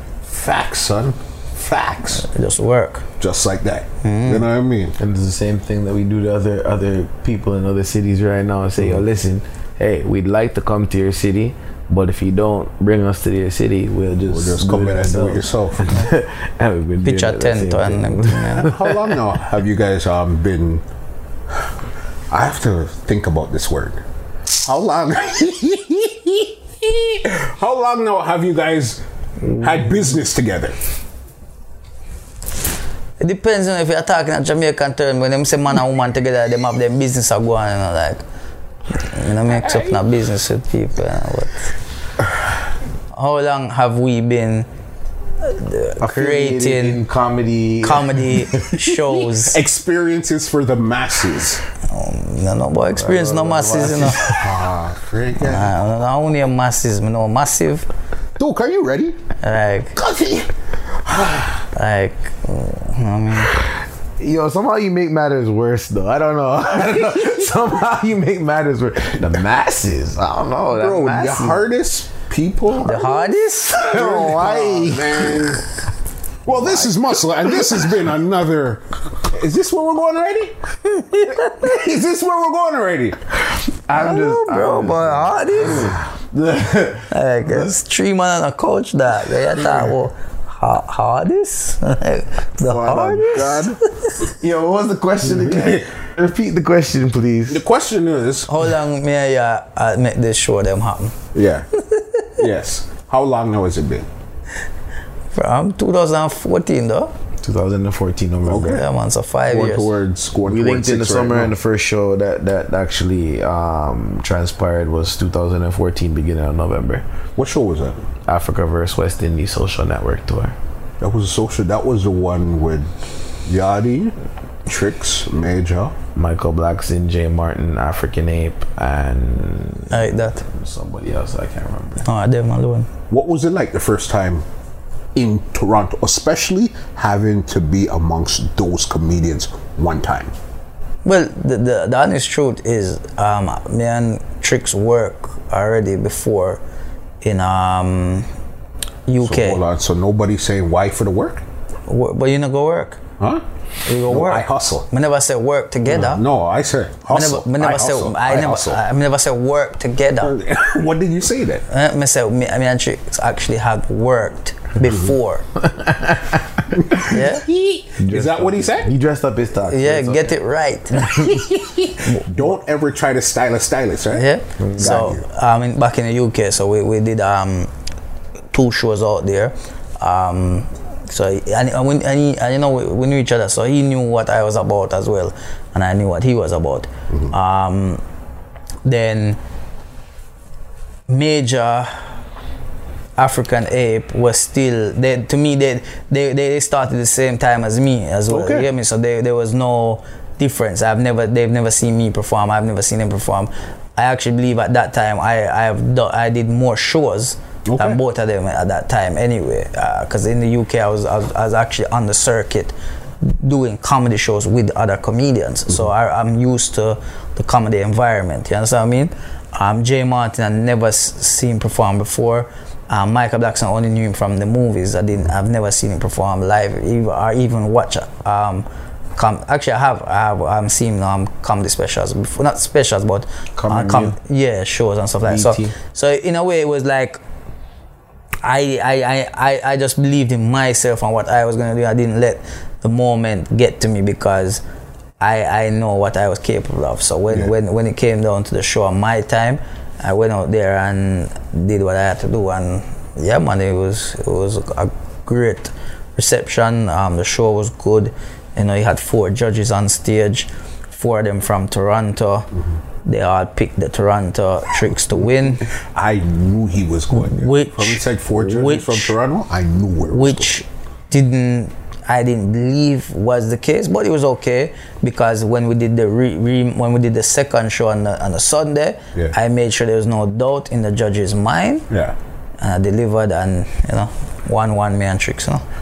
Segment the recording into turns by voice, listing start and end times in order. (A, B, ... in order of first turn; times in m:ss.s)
0:00.2-0:02.3 A
0:02.1-0:03.0 B
0:03.2-0:05.0 A
0:04.0-0:04.4 B
0:05.0-0:19.2 C
0:14.3-0:16.0 A
0:17.0-0:18.8 B
0:18.6-0:20.8 A
0:22.3-0:24.0 A
0:24.6-0:29.0 A
0:29.5-0:29.9 C
0:29.6-0:30.7 A
0:33.2-0:38.2 B
0:39.0-0:41.7 B
0:43.1-0:44.7 B
0:45.4-0:47.0 B
0:46.0-0:48.9 C
0:47.8-0:49.6 B
0:49.1-0:51.6 A
0:51.9-0:54.3 B
0:52.9-0:54.6 C
0:54.3-0:55.7 A
0:55.4-0:57.9 B
0:58.4-0:59.2 A
0:59.4-1:00.0 B
1:00.0-1:00.5 A
1:01.0-1:01.6 A
1:01.7-1:03.5 B
1:04.2-1:11.6 C
1:10.7-1:13.0 A
1:12.8-1:14.1 B
1:12.8-1:15.6 C
1:13.7-1:15.6 A
1:16.4-1:20.6 A
1:20.9-1:21.8 B
1:21.3-1:23.2 A
1:23.9-1:27.7 C
1:23.9-1:26.0 B
1:27.1-1:34.2 B
1:32.7-1:33.8 A
1:34.2-1:37.6 C
1:35.3-1:35.8 A
1:37.5-1:38.5 A
1:38.5-1:41.1 B
1:41.3-1:41.7 A
1:41.8-1:42.3 B
1:42.4-1:44.1 A
1:45.3-1:47.1 B
1:47.4-1:48.8 C
1:48.4-1:48.8 A
1:48.6-1:49.9 B
1:49.5-1:51.5 A
1:50.4-1:57.0 C
1:57.4-1:58.0 A
1:58.3-2:00.6 C
2:01.0-2:02.9 A
2:03.4-2:04.1 A
2:04.6-2:05.9 A
2:06.1-2:12.0 C
2:09.9-2:10.4 B
2:12.0-2:12.9 B
2:13.1-2:14.4 A
2:15.1-2:20.3 A
2:21.0-2:26.6 B
2:27.2-2:28.3 B
2:29.1-2:29.6 B
2:29.2-2:31.4 A
2:31.9-2:33.0 B
2:33.8-2:36.2 B
2:34.0-2:34.9 A
2:35.9-2:38.8 A
2:37.1-2:40.3 B
2:40.2-2:41.6 A
2:41.7-2:45.4 B
2:44.8-2:45.1 A
2:45.6-2:47.0 C
2:46.7-2:48.9 A
2:46.9-2:47.4 B
2:48.0-2:50.4 C
2:49.7-2:51.4 B
2:51.0-2:51.4 C
2:51.3-2:55.2 A
2:54.1-2:57.7 B
2:54.6-2:55.0 C
2:58.5-3:08.0 B
3:08.8-3:09.4 B
3:11.1-3:11.9 B
3:13.2-3:57.2 B
3:18.3-3:18.7 A
3:27.7-3:28.0 A
3:53.6-3:54.1 C
3:55.2-3:55.7 C
3:58.4-4:04.6 B
4:05.2-4:22.5 B
4:23.0-4:25.7 B
4:25.1-4:30.5 A
4:27.1-4:29.1 B
4:30.1-4:41.9 B
4:41.9-4:42.1 A
4:42.6-4:45.6 B